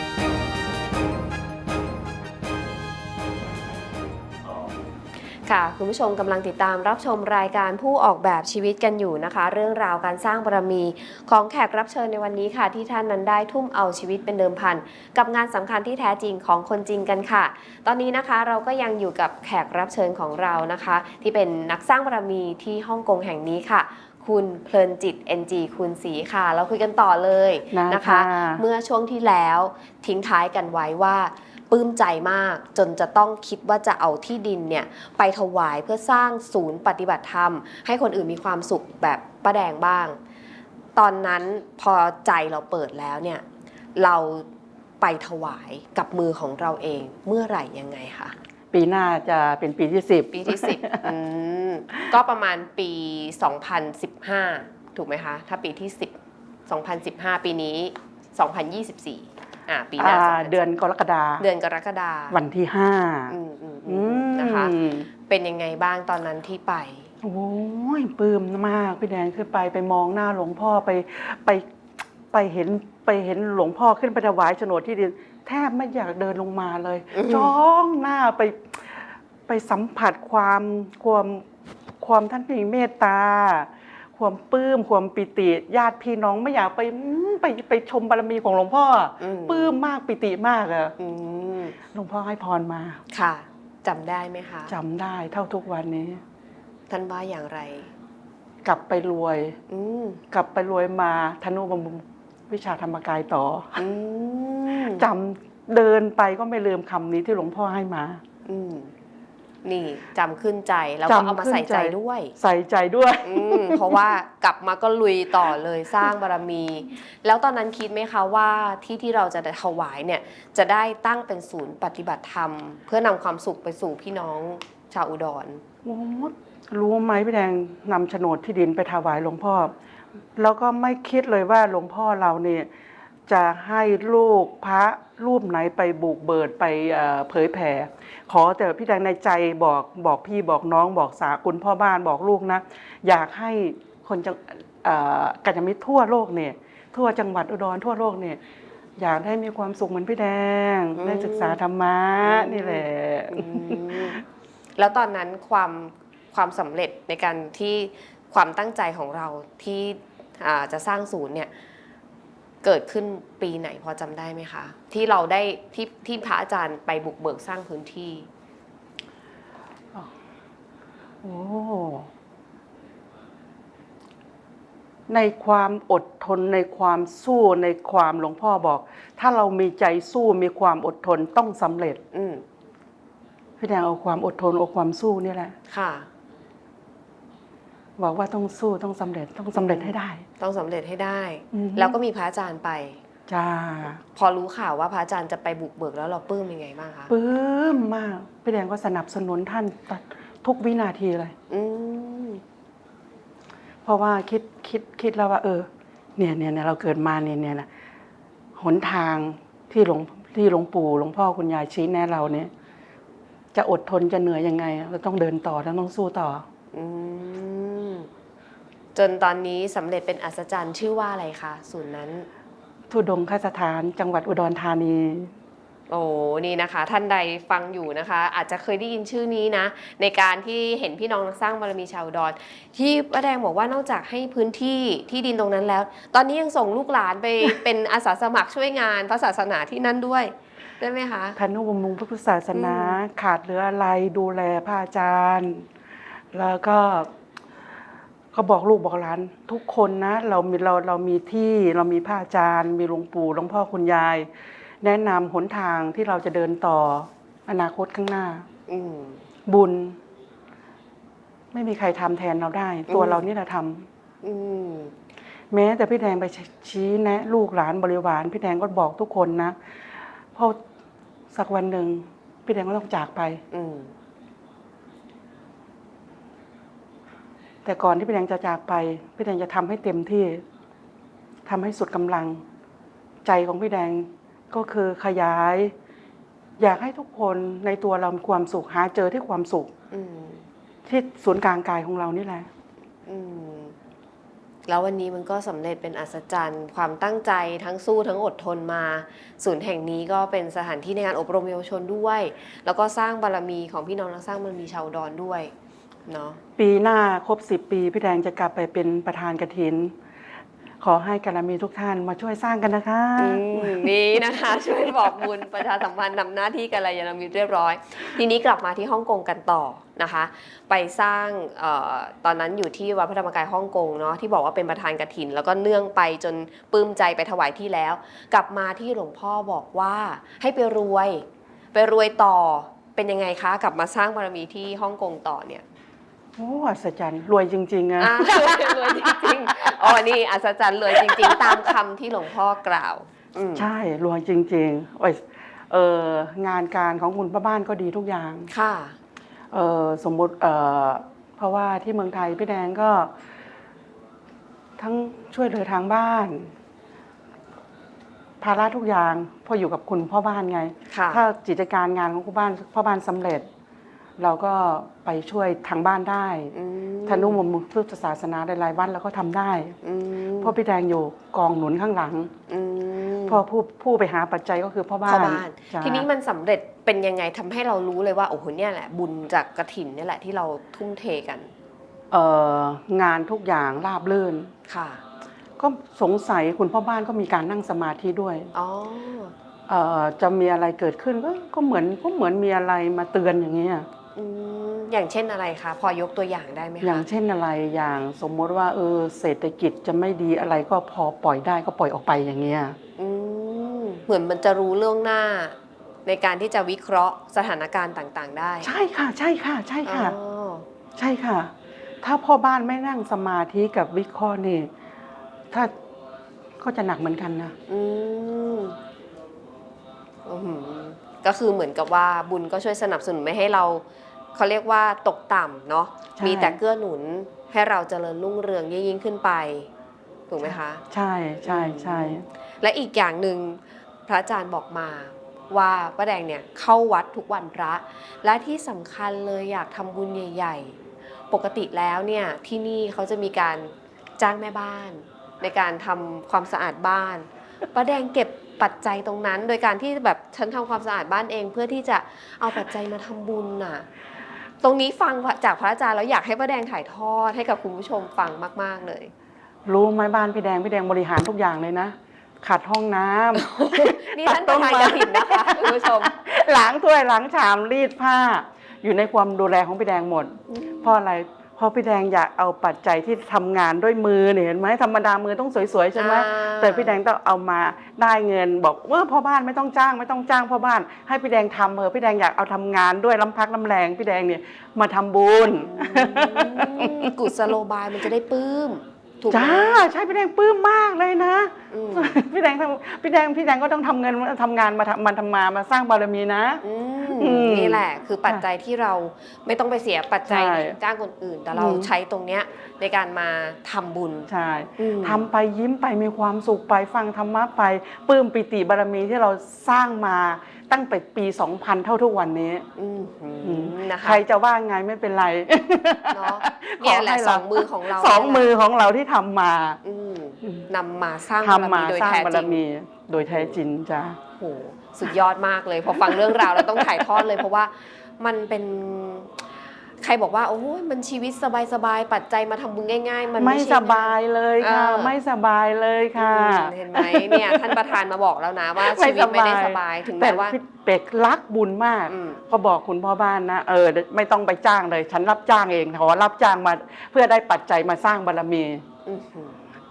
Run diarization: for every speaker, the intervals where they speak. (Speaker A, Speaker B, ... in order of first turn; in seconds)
Speaker A: 5.5-40.2, 41.0-43.4, 44.0-44.5, 45.0-48.4, 50.3-56.2, 56.7-60.6, 61.4-62.4, 63.3-64.8, 65.3-67.1, 77.1-77.5, 89.2-89.8, 91.0-91.8, 93.1-94.7, 96.9-97.9, 99.7-100.2, 103.8-105.1, 108.5-108.9, 109.6-112.3, 113.2-125.6, 151.0-151.6, 152.2-154.2, 154.8-161.5, 162.6-168.3, 182.1-182.4, 185.7-186.1, 189.6-193.0, 194.1-197.1, 201.5-202.4, 216.7-218.1, 218.9-222.3, 225.9-241.4, 242.5-243.0, 258.7-259.2, 262.9-263.2, 264.2-264.9, 273.5-273.9, 289.9-290.4, 293.1-293.8, 294.7-305.5, 306.1-306.4, 313.2-335.6, 338.0-343.7, 348.5-349.0, 360.9-361.2, 366.5-367.4, 369.8-370.6, 372.5-373.4, 375.1-381.5, 384.7-385.0, 388.5-389.3, 394.2-397.1, 403.0-408.7, 409.9-410.7, 417.7-418.8, 420.2-423.8, 424.4-429.7, 430.3-430.8, 431.4-440.8, 441.3-453.9, 454.6-459.1, 463.4-466.1, 476.0-477.0, 485.6-489.9, 491.7-492.2, 496.6-505.2, 512.8-514.2, 516.1-518.5, 519.8-522.6, 523.3-523.6, 524.4-529.5, 530.0-535.1, 536.2-540.6, 542.1-542.4, 549.1-549.6
Speaker B: 27.7-28.6, 48.7-51.1, 60.0-61.5, 62.3-63.4, 63.9-65.1, 67.2-71.7, 72.3-81.5, 82.0-90.9, 91.9-93.0, 94.7-96.2, 98.6-99.6, 100.3-103.8, 104.9-108.2, 111.1-114.0, 125.8-129.7, 130.4-132.7, 133.3-148.4, 149.0-154.2, 171.2-172.1, 175.1-182.0, 183.6-185.6, 188.0-190.2, 191.5-192.0, 193.3-194.0, 197.1-201.3, 203.8-207.7, 208.6-212.5, 213.5-216.4, 222.9-225.3, 241.4-245.7, 246.3-247.1, 248.3-254.3, 254.8-258.5, 259.5-260.0, 261.5-263.9, 265.5-269.6, 270.3-270.6, 271.3-273.4, 277.6-280.4, 281.5-282.4, 283.2-285.7, 286.6-289.7, 290.9-292.5, 306.6-309.9, 310.8-315.3, 336.4-340.0, 340.9-341.7, 343.6-348.5, 349.5-353.1, 354.8-356.5, 358.4-363.5, 364.2-366.5, 367.1-369.8, 370.4-372.3, 373.3-376.1, 382.1-384.5, 385.6-388.5, 389.7-393.9, 396.8-402.8, 408.6-410.2, 411.0-414.7, 416.6-417.5, 426.2-426.6, 430.4-432.2, 459.7-487.5, 489.3-496.6, 497.2-498.4, 500.3-500.8, 501.5-501.9, 504.3-512.7, 513.4-519.8, 521.4-524.2, 525.9-527.5, 533.4-537.8, 538.8-548.8